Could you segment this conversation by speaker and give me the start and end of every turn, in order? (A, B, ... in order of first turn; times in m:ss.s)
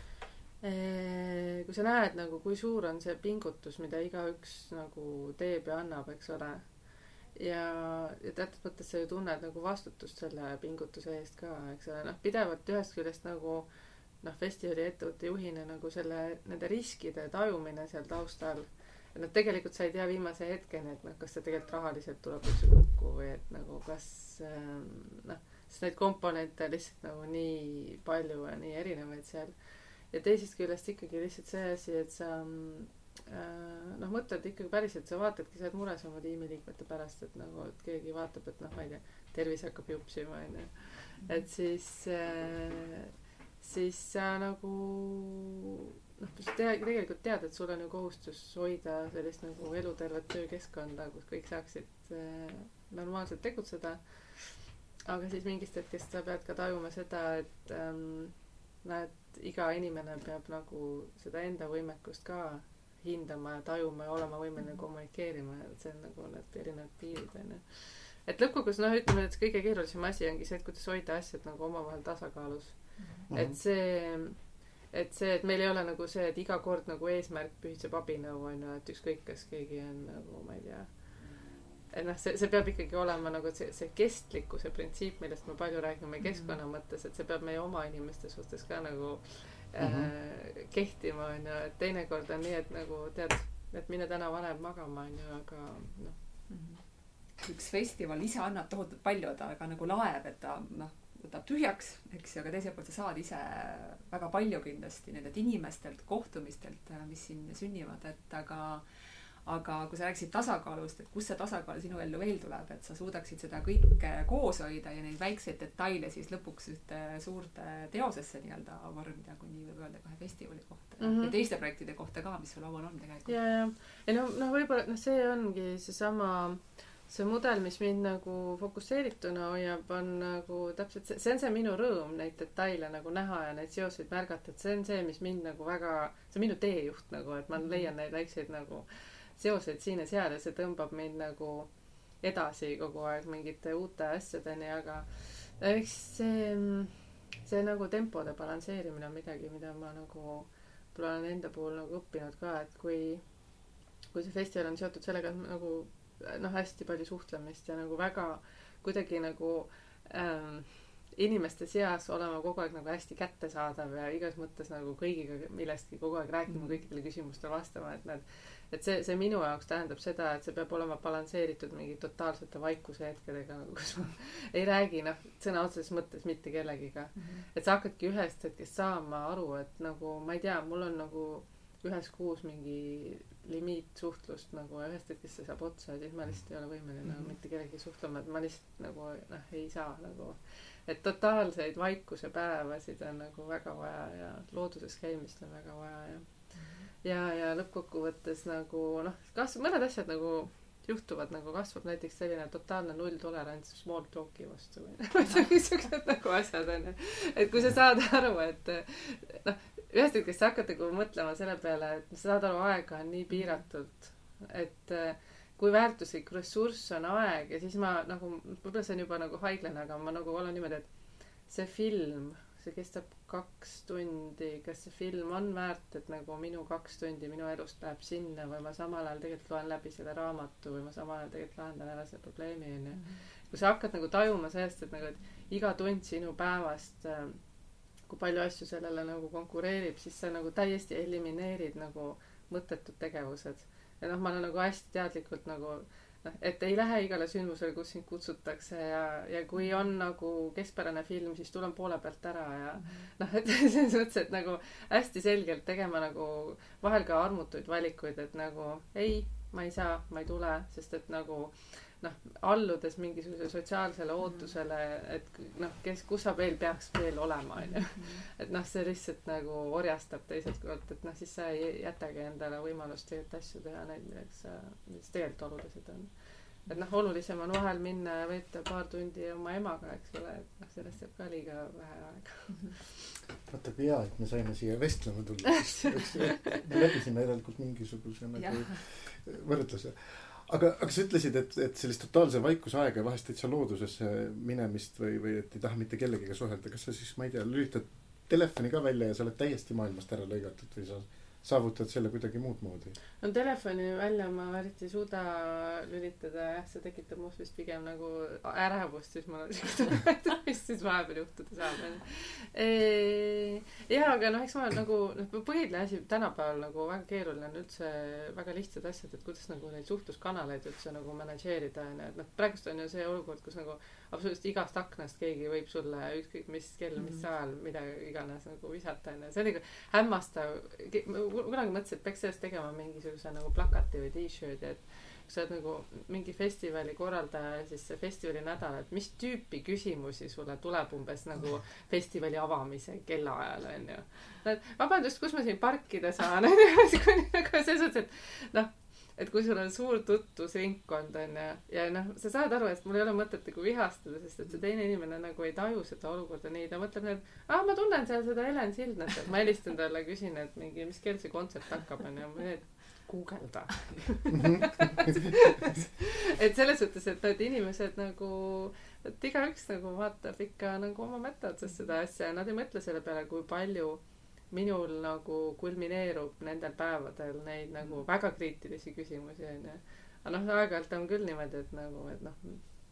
0:00.6-0:06.6 A
0:07.3-0:13.7 A
0:14.2-0:29.5 A
0:30.1-0:54.0 A
0:55.0-1:14.4 A
1:13.0-1:13.2 B
1:13.3-1:13.6 C
1:14.9-1:20.9 A
1:21.9-1:36.1 A
1:26.2-1:26.5 B
1:29.8-1:30.1 C
1:36.5-1:36.8 B
1:37.4-1:48.8 B
1:49.4-2:03.3 B
2:01.0-2:01.3 A
2:03.2-2:21.7 A
2:17.6-2:17.9 B
2:22.2-2:33.2 A
2:34.1-3:16.3 A
2:57.2-2:57.4 B
3:16.6-3:16.8 B
3:17.0-3:40.8 A
3:41.5-3:57.4 A
3:52.9-3:53.2 B
3:58.1-4:36.1 A
4:27.7-4:28.2 B
4:36.6-4:43.1 A
4:43.5-5:03.0 C
4:45.8-4:46.1 A
4:48.4-4:48.8 B
5:03.2-6:22.6 A
6:04.3-6:05.2 C